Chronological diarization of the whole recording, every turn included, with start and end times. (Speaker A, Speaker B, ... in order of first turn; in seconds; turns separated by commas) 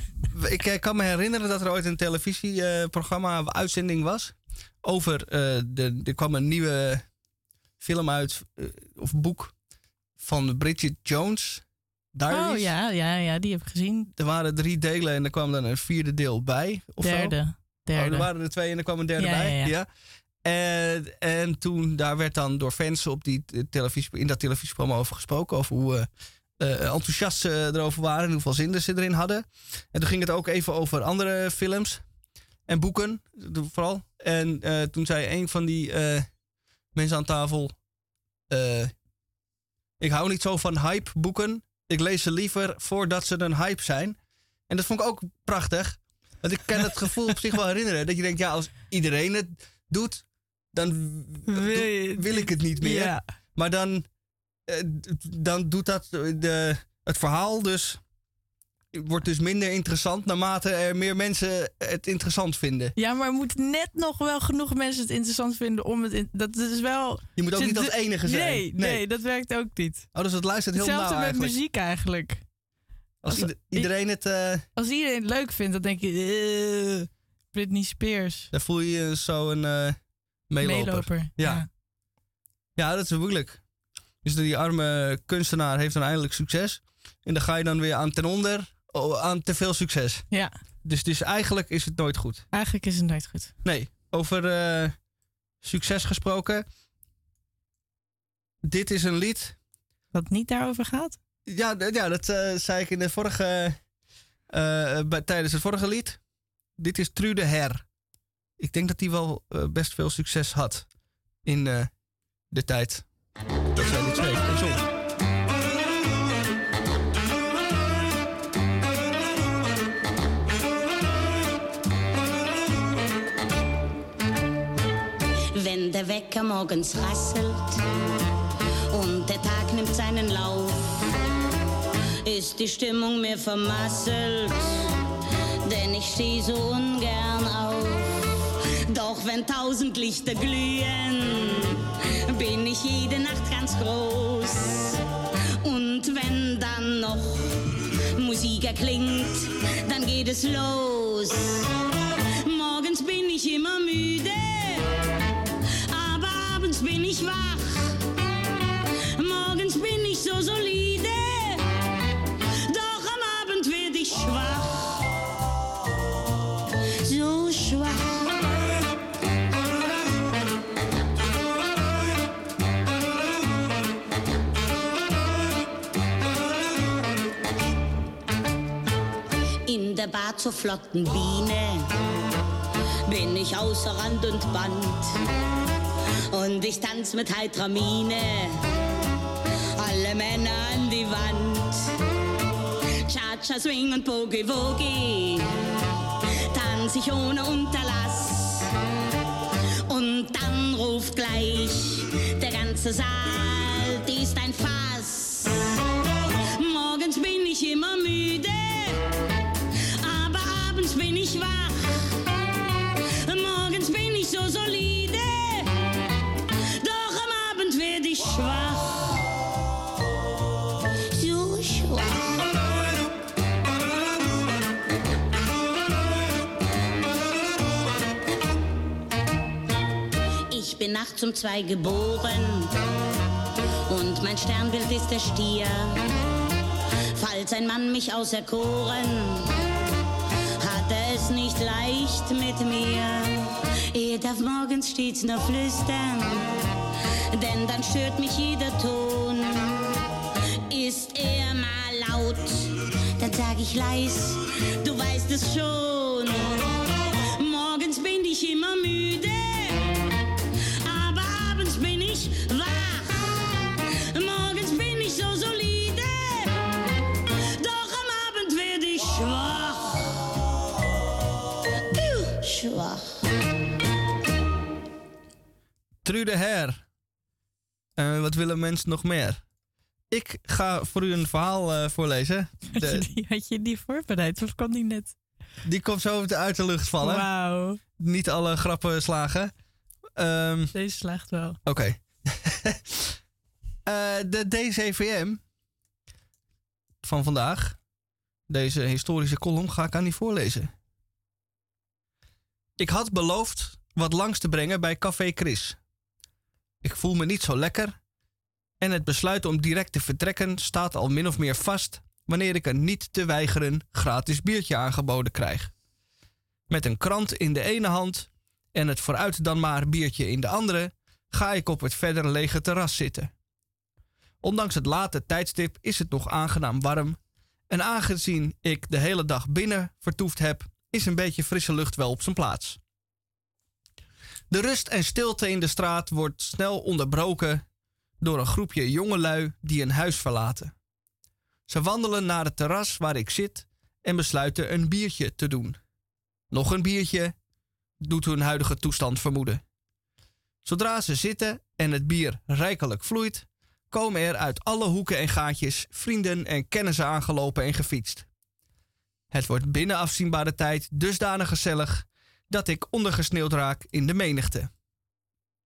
Speaker A: 0.3-7.0, Speaker A: 7.8-9.5, Speaker A: 10.2-12.7, Speaker B: 12.3-14.1, Speaker A: 14.2-17.4, Speaker B: 17.0-18.3, Speaker A: 18.0-19.9, Speaker B: 19.2-19.7, Speaker A: 20.4-32.0, Speaker A: 32.7-36.3, Speaker A: 36.9-37.8, Speaker A: 38.5-38.9, Speaker A: 40.0-44.2, Speaker A: 44.7-54.1, Speaker B: 51.5-53.2, Speaker A: 54.7-58.0, Speaker A: 58.9-62.9, Speaker B: 63.0-70.1, Speaker A: 67.4-69.0, Speaker A: 70.1-71.6, Speaker B: 70.7-72.4, Speaker A: 73.2-74.7, Speaker B: 73.3-73.9, Speaker B: 74.8-78.5, Speaker A: 78.5-80.0, Speaker A: 80.5-81.6, Speaker B: 80.6-81.7, Speaker A: 82.8-83.6, Speaker A: 84.2-90.2, Speaker A: 90.8-92.5, Speaker B: 92.5-93.5, Speaker A: 93.6-95.0, Speaker A: 95.6-96.6, Speaker A: 98.6-99.6, Speaker B: 100.1-101.2, Speaker A: 101.5-103.8, Speaker A: 104.5-106.2, Speaker A: 106.8-107.8, Speaker A: 108.6-110.9, Speaker A: 111.5-111.9, Speaker A: 112.5-113.1, Speaker A: 113.7-114.8, Speaker C: 125.5-127.7, Speaker C: 128.9-130.8, Speaker C: 132.3-134.7, Speaker C: 135.7-138.1, Speaker C: 138.9-141.8, Speaker C: 142.3-144.9, Speaker C: 145.6-147.4, Speaker C: 148.2-151.6, Speaker C: 152.4-154.9, Speaker C: 155.9-157.7, Speaker C: 159.2-161.6, Speaker C: 162.7-164.9, Speaker C: 167.0-168.2, Speaker C: 179.7-181.9, Speaker C: 183.1-185.1, Speaker C: 186.3-188.6, Speaker C: 189.8-191.8, Speaker C: 193.1-195.5, Speaker C: 196.5-198.7, Speaker C: 199.9-205.6, Speaker C: 206.3-209.0, Speaker C: 210.0-211.8, Speaker C: 213.3-215.7, Speaker C: 216.8-219.1, Speaker C: 221.1-222.6, Speaker C: 230.5-232.7, Speaker C: 233.9-236.0, Speaker C: 237.2-239.4, Speaker C: 240.6-246.4, Speaker C: 247.3-249.7, Speaker C: 250.7-256.7, Speaker C: 257.4-259.8, Speaker C: 260.9-263.4, Speaker C: 264.1-266.5, Speaker C: 267.6-270.0, Speaker C: 271.9-273.1, Speaker A: 276.0-276.9, Speaker A: 278.0-279.4, Speaker A: 280.1-283.1, Speaker B: 282.7-285.2, Speaker A: 285.6-287.3, Speaker B: 287.0-287.8, Speaker A: 288.0-289.5, Speaker A: 290.2-290.7, Speaker B: 290.7-291.6, Speaker A: 291.6-293.2, Speaker A: 293.9-295.4, Speaker A: 297.0-297.8, Speaker A: 298.5-300.7, Speaker A: 302.8-305.8, Speaker A: 306.8-308.0, Speaker A: 308.8-315.7, Speaker A: 316.7-323.3, Speaker A: 324.4-327.2, Speaker A: 327.7-332.8, Speaker A: 334.5-337.6, Speaker A: 338.2-340.7, Speaker A: 341.7-345.8, Speaker A: 346.5-347.4, Speaker A: 348.0-349.6, Speaker A: 350.6-358.3, Speaker A: 359.3-364.7